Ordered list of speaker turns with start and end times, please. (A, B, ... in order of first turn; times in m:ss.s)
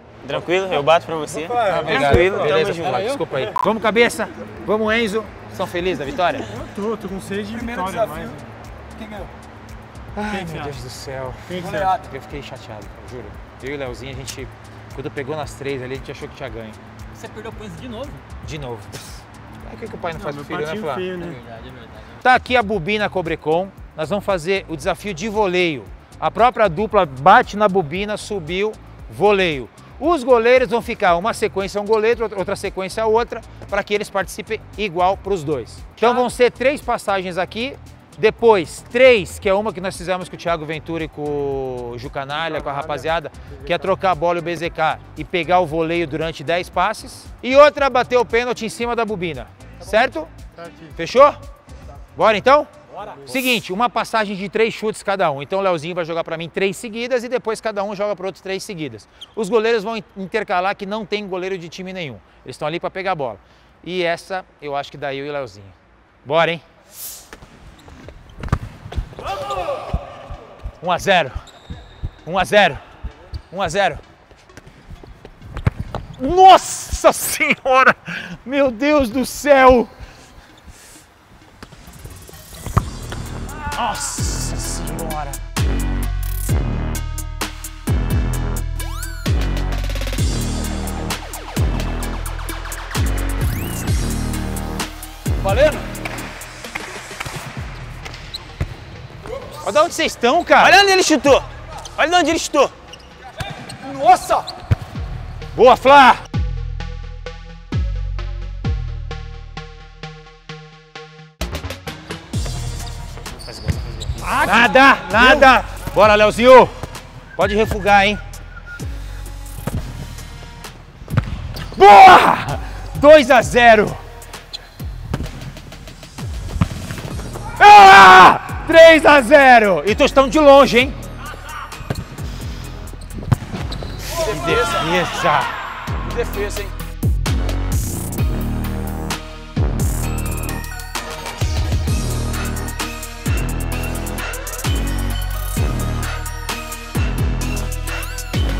0:00.2-0:03.2 A
0:01.3-0:02.5 B
0:01.7-0:06.5 C
0:06.5-0:08.4 B
0:07.5-0:08.4 D
0:10.1-0:16.8 C
0:10.3-0:10.8 B
0:11.5-0:12.0 B
0:11.6-0:11.9 D
0:17.2-0:18.1 D
0:17.2-0:17.8 A
0:18.4-0:21.1 C
0:20.2-0:21.4 B
0:22.2-0:50.3 C
0:42.4-0:43.1 B
0:43.6-0:43.9 B
0:50.6-0:50.9 B
0:51.0-0:51.4 C
0:52.1-0:52.7 C
0:53.2-1:06.6 C
1:10.8-1:11.4 C
1:12.2-1:12.8 C
1:13.5-1:14.0 C
1:16.2-1:19.9 C
1:23.7-1:25.4 C
1:35.4-1:35.8 D
1:39.6-1:40.8 C
1:40.6-1:42.7 A
1:43.8-1:44.4 D
1:45.5-1:46.2 C
1:53.3-1:54.7 A
1:54.4-1:56.7 C
1:57.4-1:58.2 C
2:01.7-2:04.0 C
2:07.6-2:11.0 C
2:14.1-2:15.5 C
2:16.1-2:16.6 A
2:16.1-2:16.7 D